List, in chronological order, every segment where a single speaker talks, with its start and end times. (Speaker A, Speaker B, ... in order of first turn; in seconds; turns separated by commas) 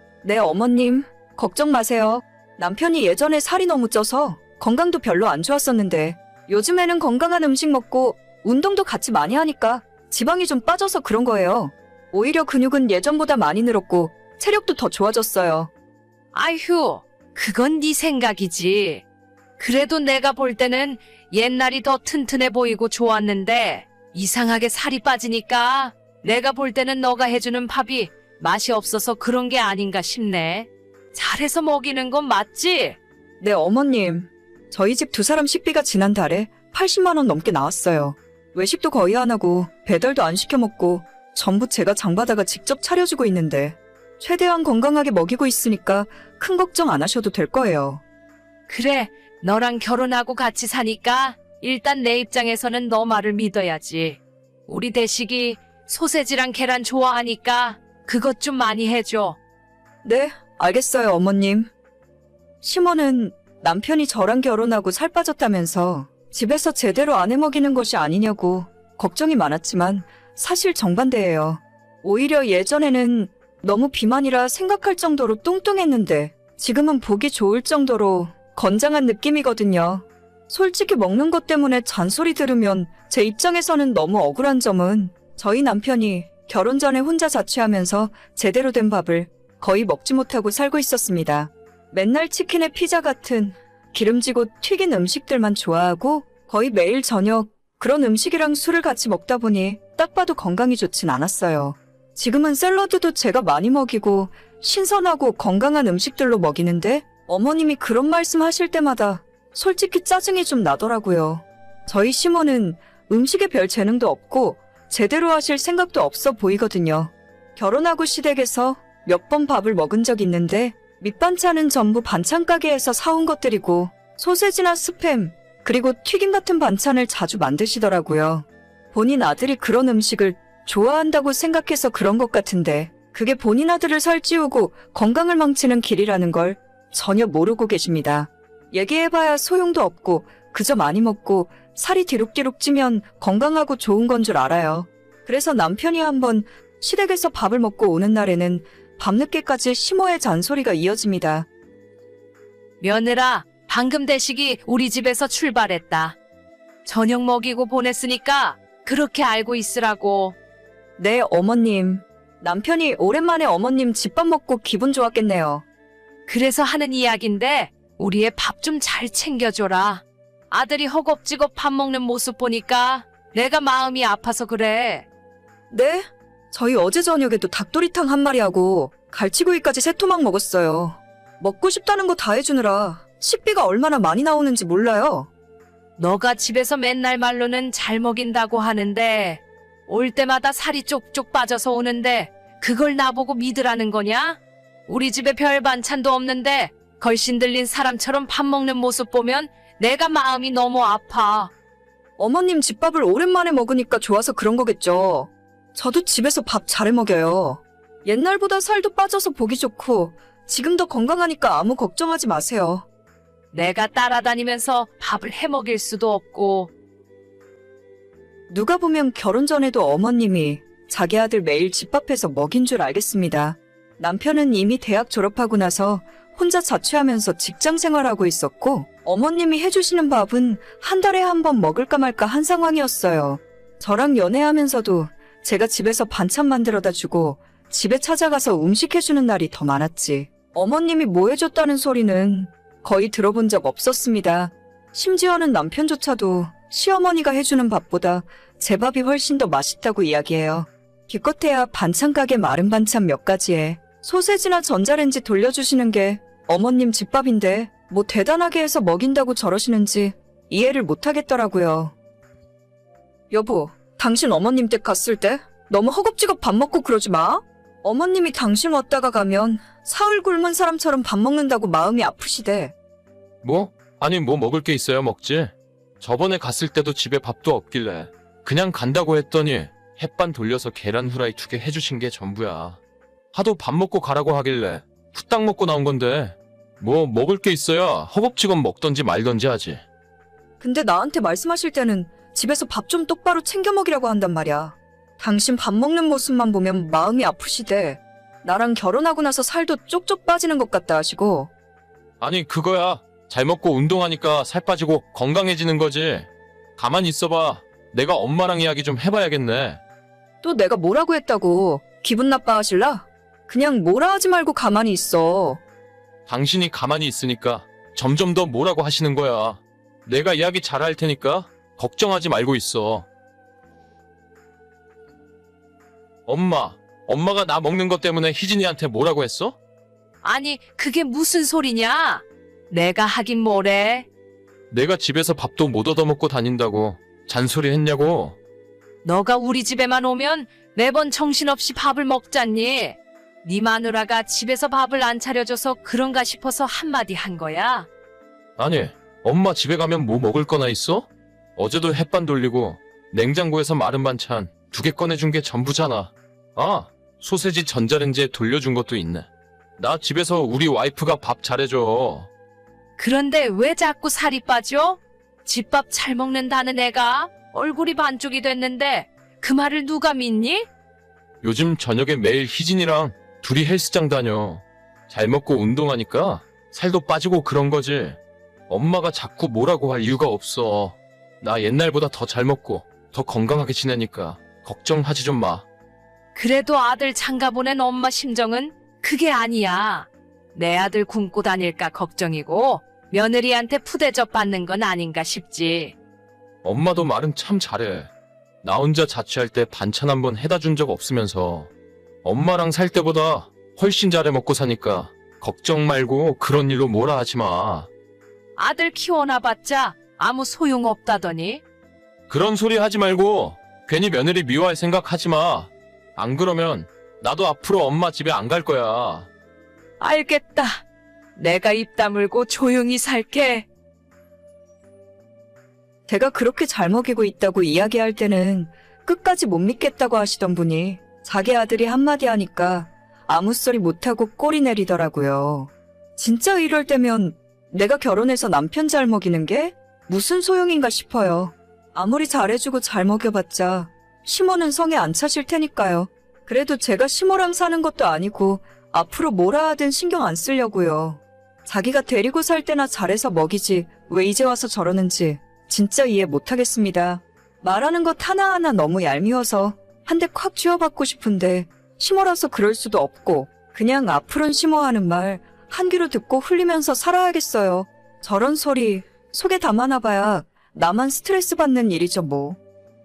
Speaker A: 0.2-15.7, Speaker B: 16.3-19.0, Speaker B: 19.6-33.0, Speaker A: 33.4-48.0, Speaker B: 48.7-59.4, Speaker A: 60.0-61.7, Speaker A: 62.6-151.4, Speaker B: 152.8-156.2, Speaker B: 156.8-160.3, Speaker A: 161.0-165.6, Speaker B: 166.3-175.1, Speaker A: 175.7-185.3, Speaker B: 186.0-201.5, Speaker A: 202.2-212.8, Speaker B: 213.5-216.7, Speaker A: 218.5-261.9, Speaker A: 263.3-272.7, Speaker C: 273.4-282.8, Speaker C: 283.3-289.8, Speaker A: 290.6-301.5, Speaker C: 302.2-309.8, Speaker A: 310.4-315.6, Speaker C: 316.3-323.1, Speaker C: 326.2-329.6, Speaker B: 330.2-334.1, Speaker C: 334.7-338.4, Speaker B: 339.0-347.9, Speaker C: 348.6-359.3, Speaker C: 359.8-362.3, Speaker B: 363.0-370.7, Speaker C: 371.4-385.6, Speaker B: 386.3-395.9, Speaker C: 396.6-398.1, Speaker C: 398.6-401.7, Speaker C: 402.2-407.9, Speaker B: 408.6-411.6, Speaker C: 412.3-419.3, Speaker B: 420.0-420.8, Speaker B: 421.4-423.7, Speaker A: 426.1-472.6